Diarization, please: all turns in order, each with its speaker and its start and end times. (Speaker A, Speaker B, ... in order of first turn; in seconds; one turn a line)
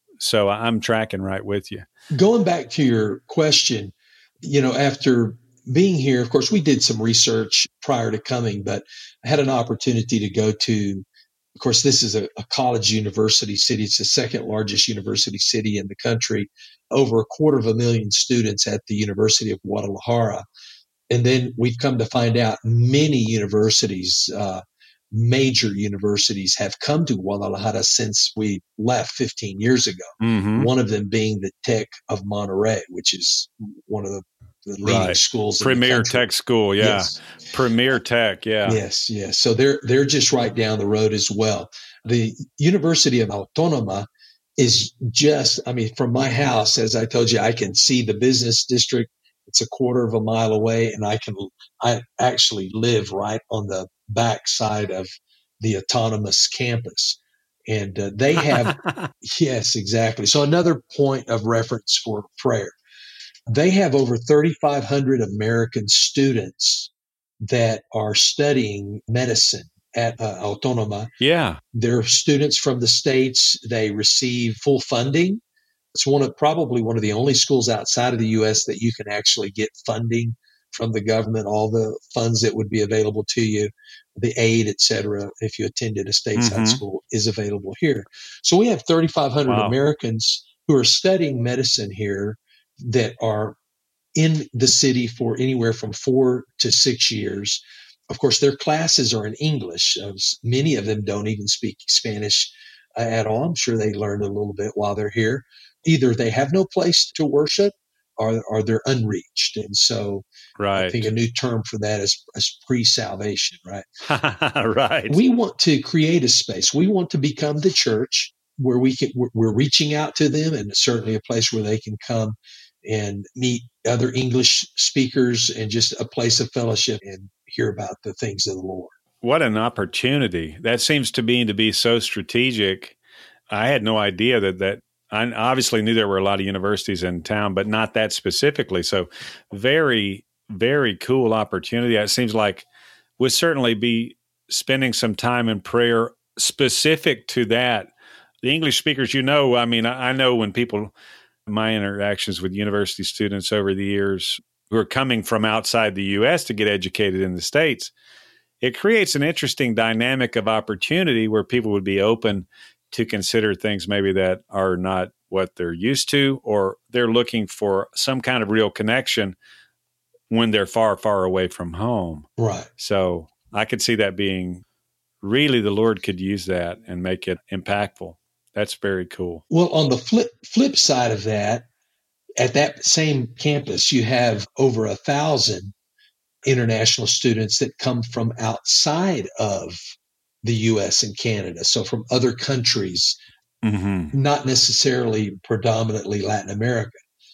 Speaker A: 0.2-1.9
Speaker B: 2.1-11.0
Speaker B: 11.6-20.4
Speaker B: 21.1-36.3
Speaker A: 30.2-30.7
Speaker A: 34.8-38.8
Speaker B: 36.8-37.2
Speaker B: 38.6-44.1
Speaker B: 44.6-55.1
Speaker B: 55.6-62.7
Speaker A: 58.5-59.1
Speaker B: 63.5-66.9
Speaker B: 67.4-71.1
Speaker A: 71.2-71.6
Speaker B: 71.7-75.4
Speaker B: 75.9-93.6
Speaker A: 86.4-86.8
Speaker A: 89.5-89.7
Speaker B: 94.1-113.8
Speaker A: 110.6-111.1
Speaker A: 114.0-115.2
Speaker B: 115.1-128.9
Speaker A: 129.2-132.9
Speaker A: 133.5-142.7
Speaker A: 143.2-147.9
Speaker A: 148.4-150.9
Speaker A: 151.5-157.9
Speaker A: 158.6-169.3
Speaker A: 170.3-172.3
Speaker B: 172.4-172.7
Speaker A: 172.8-174.6
Speaker A: 175.2-179.4
Speaker B: 179.5-181.7
Speaker B: 182.4-185.7
Speaker B: 186.4-189.8
Speaker B: 190.4-193.2
Speaker A: 193.6-194.1
Speaker B: 194.1-196.9